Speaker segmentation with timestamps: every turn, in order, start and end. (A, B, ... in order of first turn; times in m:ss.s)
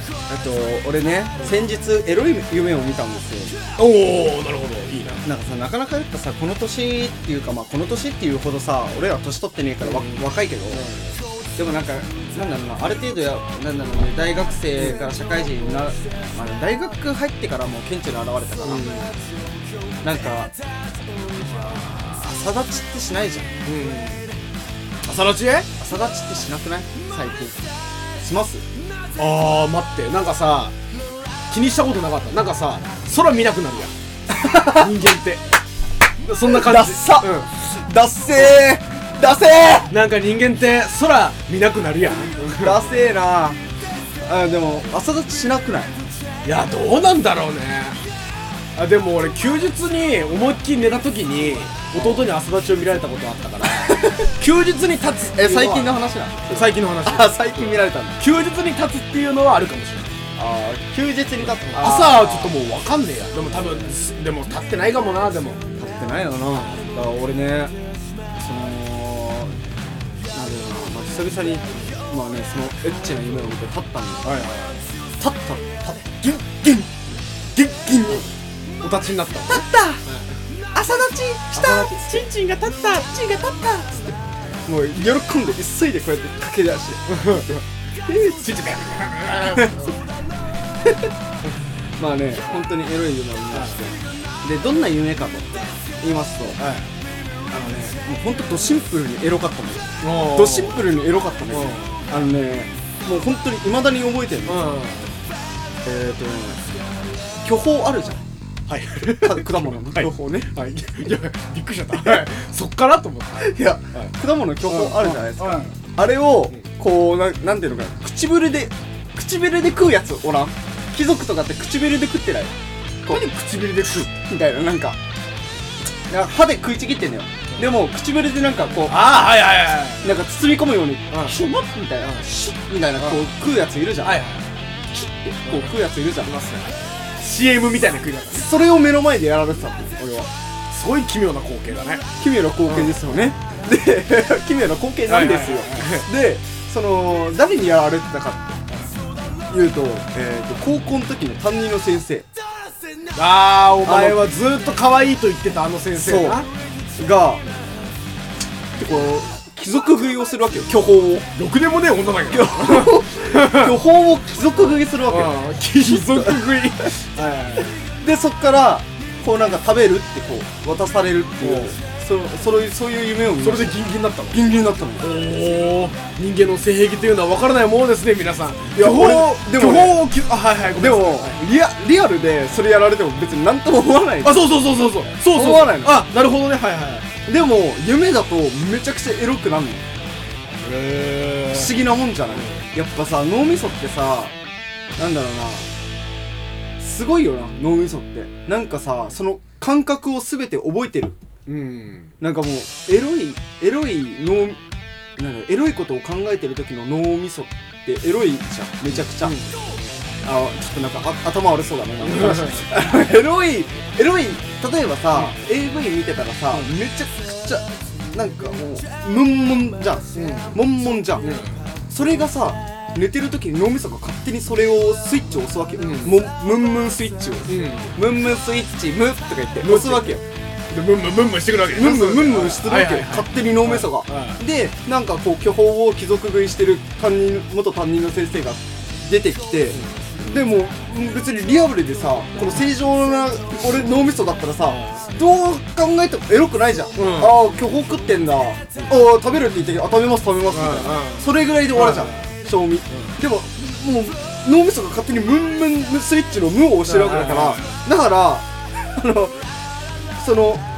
0:00.3-0:03.6 A
0:03.8-0:05.2 B
0:05.2-0:10.8 A
0:09.8-0:11.2 B
0:11.6-0:18.8 A
0:14.8-0:15.1 B
0:18.6-0:19.2 B
0:20.0-0:20.5 A
0:21.6-0:23.6 A
0:23.6-0:24.4 B
0:25.0-0:25.7 B
0:25.8-0:27.5 A
0:28.2-0:28.6 A
0:29.2-0:30.8 B
0:31.5-0:33.9 B
0:34.3-0:34.9 A
0:34.7-0:35.5 B
0:36.2-0:37.5 B
0:36.4-0:39.9 A
0:38.3-0:38.6 B
0:39.9-0:42.9 B
0:42.5-0:43.6 A
0:44.2-0:45.9 A
0:46.4-0:48.0 B
0:48.8-0:56.0 B
0:51.9-0:52.3 A
0:53.8-0:54.3 A
0:55.4-0:58.2 A
0:56.5-1:00.1 B
1:00.4-1:02.6 A
1:01.6-1:05.6 B
1:03.4-1:03.9 A
1:05.8-1:07.7 A
1:06.5-1:06.8 B
1:08.4-1:09.6 A
1:10.3-1:14.4 A
1:14.2-1:14.8 B
1:15.2-1:16.9 A
1:17.6-1:18.3 A
1:18.8-1:20.3 B
1:19.5-1:20.0 A
1:20.7-1:22.3 A
1:21.5-1:24.2 B
1:24.7-1:27.6 A
1:27.1-1:30.0 B
1:29.5-1:29.9 A
1:32.0-1:36.6 A
1:33.5-1:33.8 B
1:36.6-1:36.9 B
1:37.5-1:44.7 A
1:40.0-1:40.9 B
1:41.5-1:42.0 B
1:44.5-1:45.2 B
1:45.8-1:46.6 A
1:47.4-1:48.2 A
1:48.7-1:54.1 B
1:49.1-1:50.5 A
1:53.4-2:02.5 A
1:54.6-1:55.8 B
2:03.1-2:04.1 B
2:04.1-2:05.0 A
2:06.1-2:09.2 A
2:08.9-2:10.2 B
2:10.0-2:14.2 A
2:11.1-2:11.4 B
2:12.0-2:12.4 B
2:13.0-2:13.3 B
2:14.0-2:14.6 B
2:14.9-2:16.3 A
2:15.5-2:18.5 B
2:18.3-2:20.3 A
2:20.7-2:22.1 B
2:22.2-2:28.6 A
2:22.7-2:23.0 B
2:25.1-2:26.1 B
2:29.5-2:32.3 A
2:33.1-2:36.5 B
2:33.8-2:34.2 A
2:36.0-2:36.4 A
2:37.0-2:37.4 A
2:38.8-2:41.3 A
2:41.4-2:43.7 B
2:42.3-2:46.9 A
2:44.6-2:47.7 B
2:47.8-2:53.8 A
2:51.4-2:51.8 B
2:53.4-3:01.4 B
2:54.3-2:55.1 A
2:58.8-3:00.1 A
3:00.7-3:04.6 A
3:04.2-3:07.1 B
3:05.3-3:06.1 A
3:07.3-3:09.8 A
3:10.6-3:11.8 B
3:11.5-3:14.3 A
3:12.3-3:12.7 B
3:15.0-3:15.7 A
3:16.8-3:21.2 A
3:21.5-3:22.1 B
3:22.2-3:24.6 A
3:25.2-3:29.4 A
3:28.9-3:29.8 B
3:30.2-3:41.3 A
3:32.0-3:32.7 B
3:40.1-3:41.6 B
3:41.9-3:50.2 A
3:45.8-3:46.2 B
3:47.5-3:48.0 B
3:49.6-3:54.4 B
3:51.7-4:19.4 A
3:59.7-4:00.3 B
4:03.6-4:04.0 B
4:04.6-4:05.1 B
4:07.0-4:07.4 B
4:10.5-4:12.3 B
4:12.9-4:13.2 B
4:16.8-4:17.8 B
4:20.2-4:20.6 A